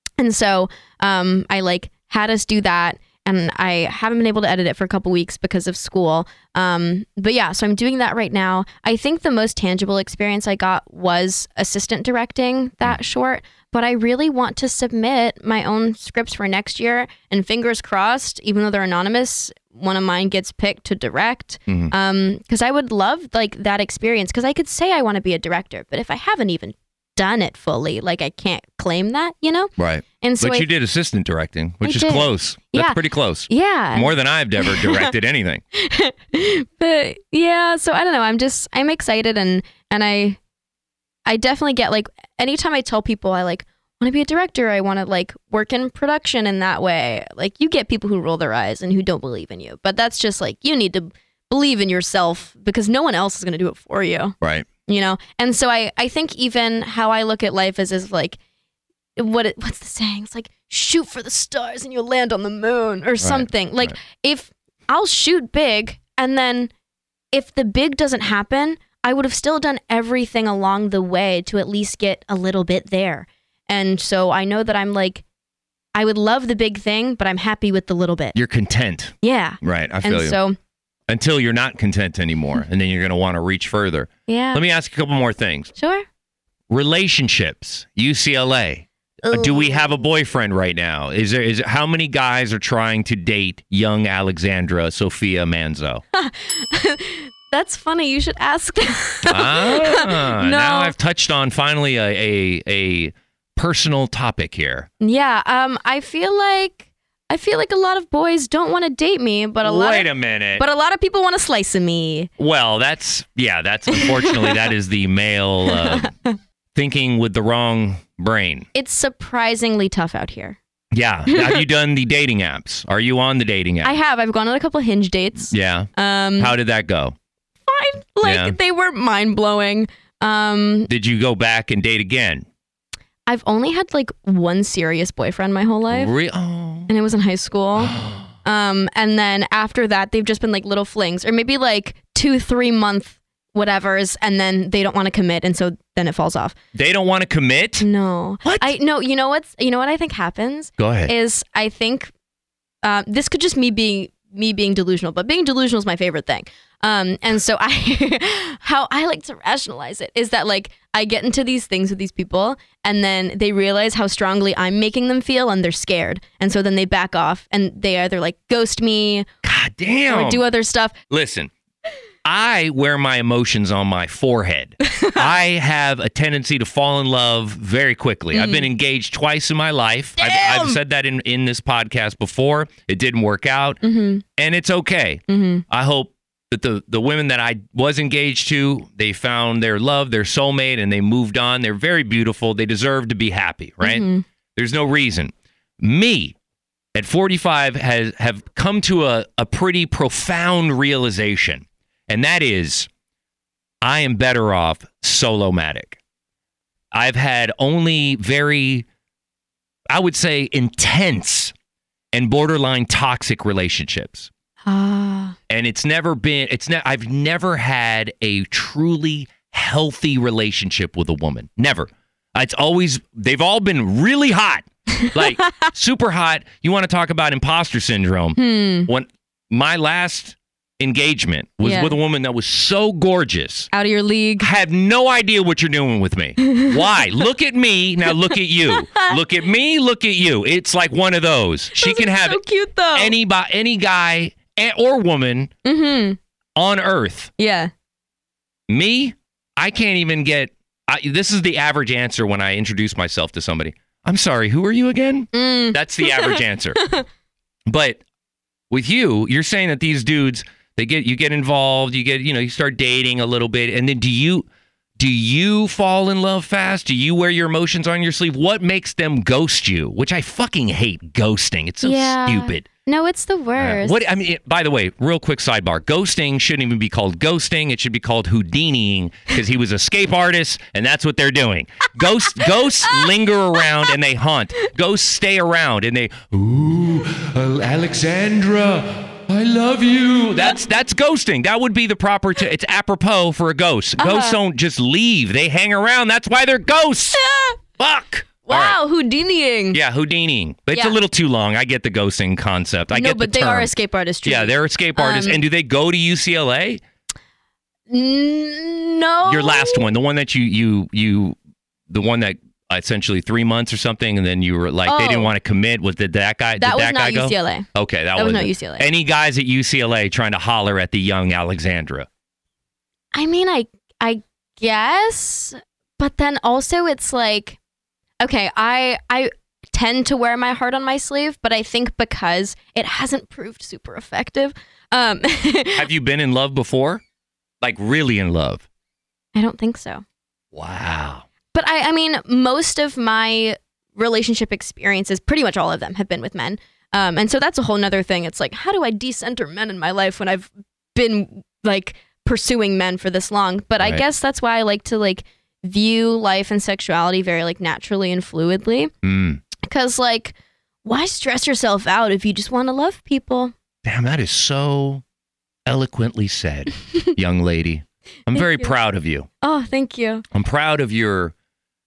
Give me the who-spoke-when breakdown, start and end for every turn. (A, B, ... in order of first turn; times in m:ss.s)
0:00.2-0:30.7 A
0:21.7-0:21.9 B
0:29.8-0:35.6 B
0:31.8-0:35.1 A
0:35.7-0:40.4 A
0:41.2-0:58.4 A
0:54.4-0:54.7 B
0:59.2-1:06.7 A
1:03.2-1:03.9 B
1:07.3-1:15.2 A
1:15.9-1:18.4 A
1:18.3-1:20.4 B
1:19.2-1:20.6 A
1:21.1-1:25.7 B
1:24.3-1:24.6 A
1:25.8-1:26.0 A
1:26.7-1:36.0 B
1:29.2-1:29.9 A
1:36.1-1:40.9 A
1:39.3-1:44.9 B
1:45.0-1:52.3 A
1:49.6-1:50.6 B
1:52.4-1:56.1 B
1:53.9-1:54.6 A
1:55.7-1:56.4 A
1:56.7-1:58.7 B
1:58.7-2:00.6 A
2:00.9-2:04.0 B
2:01.3-2:01.6 A
2:03.8-2:06.5 A
2:05.5-2:07.1 B
2:07.6-2:10.9 A
2:08.2-2:08.6 B
2:10.9-2:12.4 B
2:13.3-2:16.1 A
2:15.9-2:16.9 B
2:16.9-2:26.5 A
2:17.8-2:18.3 B
2:26.7-2:27.8 B
2:27.8-2:32.1 A
2:28.4-2:28.7 B
2:30.8-2:31.1 B
2:32.8-2:49.3 A
2:49.4-2:50.4 B
2:50.1-2:50.9 A
2:51.1-2:51.5 B
2:52.2-3:03.8 B
2:54.9-2:55.2 A
2:58.3-2:58.7 A
3:00.2-3:00.8 A
3:03.8-3:04.2 A
3:04.4-3:16.3 B
3:05.3-3:05.6 A
3:13.8-3:14.2 A
3:16.9-3:22.9 B
3:23.8-3:26.0 B
3:26.9-3:28.8 B
3:29.9-3:31.5 B
3:32.1-3:34.3 B
3:34.6-3:35.4 A
3:35.5-3:53.7 B
3:48.4-3:48.9 A
3:51.6-3:52.0 A
3:53.7-3:54.5 A
3:54.4-4:02.4 B
3:56.4-3:56.7 A
3:58.3-3:59.2 A
4:01.8-4:03.1 A
4:02.9-4:05.5 B
4:05.6-4:06.2 A
4:06.6-4:07.3 B
4:07.4-4:07.7 A
4:08.7-4:16.8 B
4:15.3-4:17.0 A
4:17.7-4:18.0 B
4:18.7-4:24.4 B
4:25.0-4:32.6 B
4:31.8-4:34.0 A
4:33.6-4:57.2 B
4:54.0-4:54.4 A
4:57.1-4:57.6 A
4:57.8-4:58.8 B
4:58.4-4:59.8 A
4:59.7-5:03.7 B
5:02.9-5:05.4 A
5:04.2-5:06.8 B
5:07.9-5:09.9 A
5:09.3-5:11.4 B
5:11.9-5:22.1 B
5:14.8-5:15.3 A
5:16.6-5:18.9 A
5:23.1-5:27.6 A
5:28.2-5:35.9 A
5:35.8-5:37.0 B
5:37.6-5:38.6 B
5:39.3-5:40.0 A
5:40.5-5:41.2 B
5:41.5-5:58.9 A
5:59.0-5:59.4 B
5:59.6-6:03.5 A
6:03.8-6:05.0 B
6:05.6-6:09.3 B
6:08.3-6:08.7 A
6:09.4-6:10.2 A
6:10.3-6:11.3 B